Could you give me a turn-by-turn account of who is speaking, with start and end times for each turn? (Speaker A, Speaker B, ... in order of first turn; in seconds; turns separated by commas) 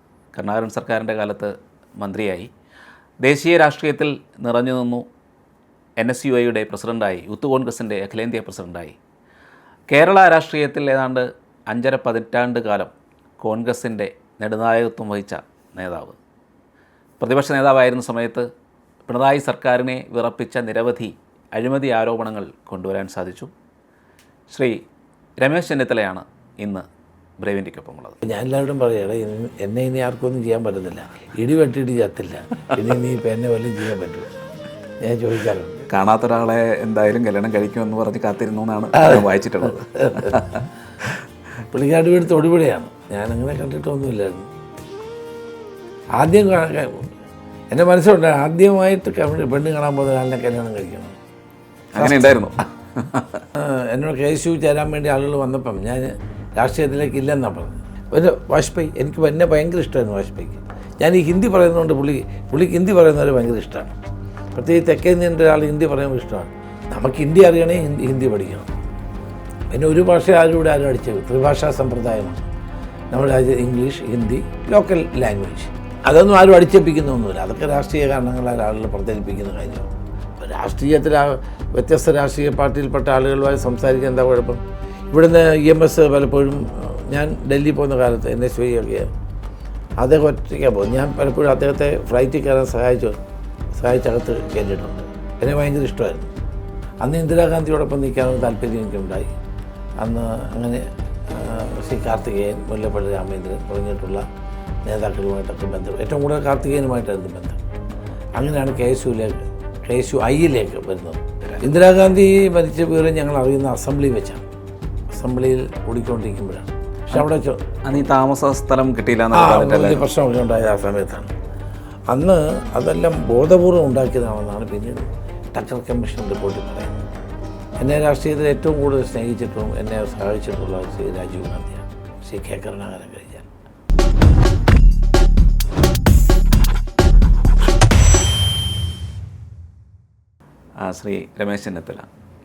Speaker A: 0.3-2.5, Speaker A: 3.2-5.0, Speaker A: 6.0-9.0, Speaker A: 9.9-16.2, Speaker A: 17.2-18.5, Speaker A: 19.1-23.5, Speaker A: 24.5-24.8, Speaker A: 25.4-26.9, Speaker A: 27.4-28.2, Speaker B: 28.2-34.3, Speaker B: 35.0-35.8, Speaker A: 35.9-40.6, Speaker B: 38.9-40.5, Speaker B: 41.7-44.5, Speaker B: 46.2-47.1, Speaker B: 47.7-51.2, Speaker A: 51.9-53.4, Speaker B: 52.0-52.4, Speaker B: 53.5-64.0, Speaker B: 64.5-68.7, Speaker B: 69.7-72.5, Speaker B: 73.1-89.1, Speaker B: 90.0-93.2, Speaker B: 93.8-96.3, Speaker B: 97.0-99.3, Speaker B: 100.0-104.2, Speaker B: 104.8-107.6, Speaker B: 108.4-114.5, Speaker B: 115.1-117.6, Speaker A: 117.8-120.0, Speaker B: 119.3-121.3, Speaker B: 122.1-127.0, Speaker B: 127.8-133.5, Speaker A: 140.8-142.1